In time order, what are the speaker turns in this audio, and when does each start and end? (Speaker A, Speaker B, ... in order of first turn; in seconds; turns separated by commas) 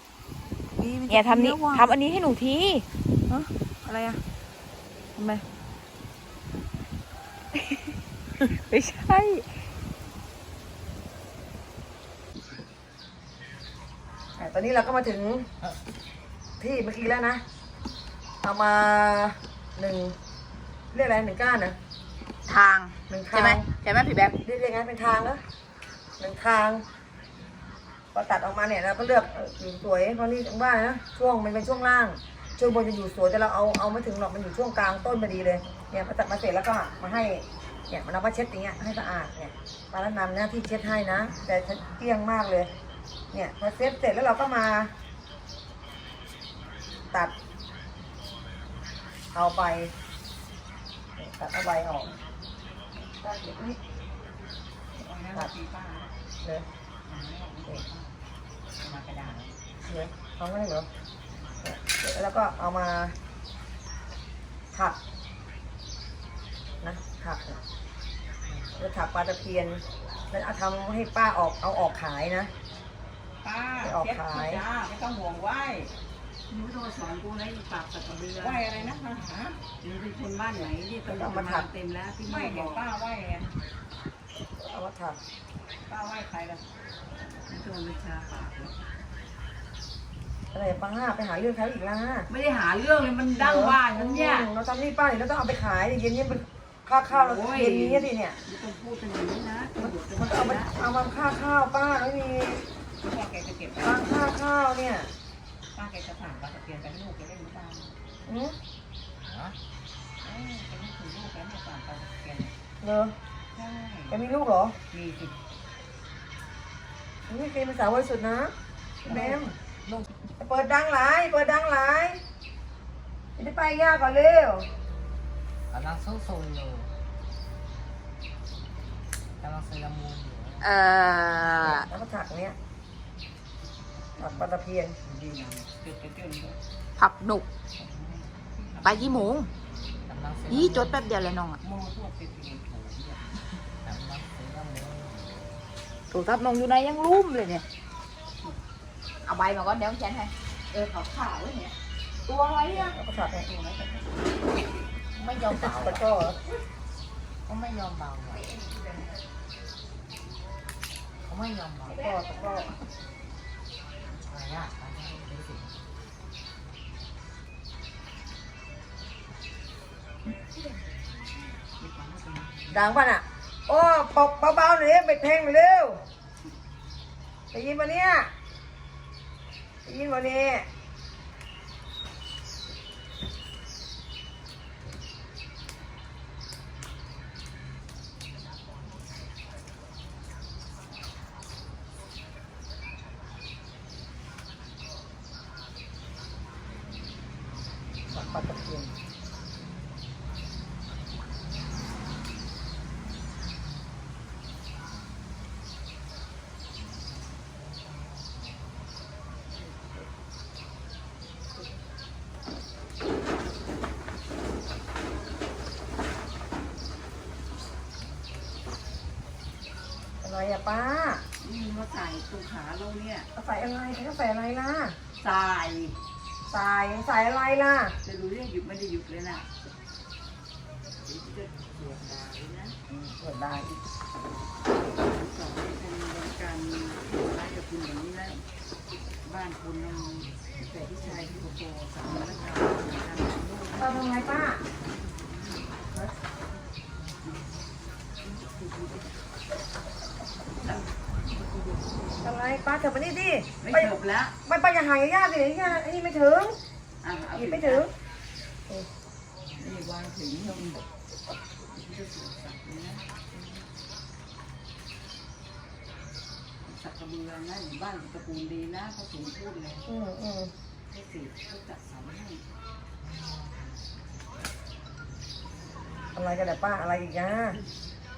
Speaker A: 0.8-1.9, Speaker B: 1.1-2.9, Speaker A: 3.3-4.2, Speaker A: 5.2-5.4, Speaker B: 7.5-7.8, Speaker B: 8.4-9.4, Speaker A: 14.4-15.5, Speaker A: 16.6-17.4, Speaker A: 18.4-20.2, Speaker A: 20.9-21.8, Speaker B: 22.4-24.4, Speaker A: 23.1-23.7, Speaker A: 24.4-25.4, Speaker A: 26.2-26.8, Speaker A: 28.1-42.7, Speaker A: 43.3-44.9, Speaker A: 49.3-49.9, Speaker A: 51.2-52.2, Speaker C: 54.9-56.1, Speaker C: 57.1-58.2, Speaker C: 58.8-59.6, Speaker A: 59.8-60.9, Speaker A: 61.6-63.2, Speaker A: 66.8-67.6, Speaker A: 68.8-72.5, Speaker C: 73.4-75.9, Speaker A: 73.8-74.6, Speaker D: 76.5-78.7, Speaker C: 78.3-79.6, Speaker D: 79.8-82.8, Speaker A: 81.1-81.7, Speaker C: 82.2-83.5, Speaker A: 84.6-85.2, Speaker C: 85.9-86.4, Speaker D: 85.9-86.6, Speaker D: 87.5-88.8, Speaker A: 90.5-92.3, Speaker D: 92.3-94.5, Speaker A: 93.4-98.4, Speaker D: 97.1-100.7, Speaker A: 99.8-102.6, Speaker C: 103.0-104.2, Speaker A: 103.8-105.1, Speaker C: 105.8-108.0, Speaker A: 108.2-108.6, Speaker E: 109.2-109.6, Speaker C: 110.2-112.5, Speaker A: 112.8-113.2, Speaker C: 113.5-114.2, Speaker A: 114.1-114.8, Speaker C: 114.9-115.3, Speaker A: 117.3-118.5, Speaker A: 119.1-119.6, Speaker E: 119.1-120.1, Speaker A: 120.4-122.2, Speaker A: 123.4-124.7, Speaker E: 125.7-126.9, Speaker E: 129.4-130.7, Speaker B: 130.6-131.9, Speaker A: 131.6-132.6, Speaker A: 134.2-135.0, Speaker C: 135.0-136.6, Speaker B: 137.0-137.4, Speaker C: 137.8-139.3, Speaker B: 138.8-139.5, Speaker E: 140.1-141.0, Speaker B: 140.5-141.6, Speaker C: 141.6-143.6, Speaker E: 143.8-145.5, Speaker B: 146.1-147.6, Speaker B: 149.2-150.3, Speaker C: 150.7-151.7, Speaker B: 152.3-152.9, Speaker A: 152.7-153.5, Speaker D: 153.6-154.1, Speaker E: 155.2-156.1, Speaker A: 155.5-156.4, Speaker E: 157.5-158.5, Speaker E: 161.2-162.0, Speaker A: 161.9-162.7, Speaker B: 161.9-162.7, Speaker E: 164.2-165.7, Speaker C: 171.8-172.9, Speaker D: 172.1-172.4, Speaker A: 172.7-176.0, Speaker A: 177.5-178.3, Speaker A: 179.8-180.7, Speaker A: 198.1-198.9, Speaker A: 220.2-221.2, Speaker D: 221.4-223.3, Speaker A: 223.3-225.0, Speaker D: 225.2-226.0, Speaker A: 226.5-228.0, Speaker D: 228.0-229.4, Speaker C: 231.1-232.0, Speaker D: 231.1-232.8, Speaker A: 232.9-233.8, Speaker D: 234.9-238.4, Speaker D: 239.2-244.1, Speaker C: 240.6-241.5, Speaker A: 243.8-244.6, Speaker C: 244.9-245.7, Speaker C: 248.2-249.1, Speaker D: 250.6-250.9, Speaker C: 251.3-252.3, Speaker A: 252.2-253.9, Speaker D: 253.6-254.4, Speaker A: 254.4-256.6, Speaker D: 257.0-257.9, Speaker A: 257.3-257.9, Speaker D: 259.6-260.8, Speaker D: 261.7-263.0, Speaker D: 266.6-269.8, Speaker A: 269.9-270.5, Speaker D: 270.9-272.4, Speaker E: 273.0-273.8, Speaker A: 276.1-277.6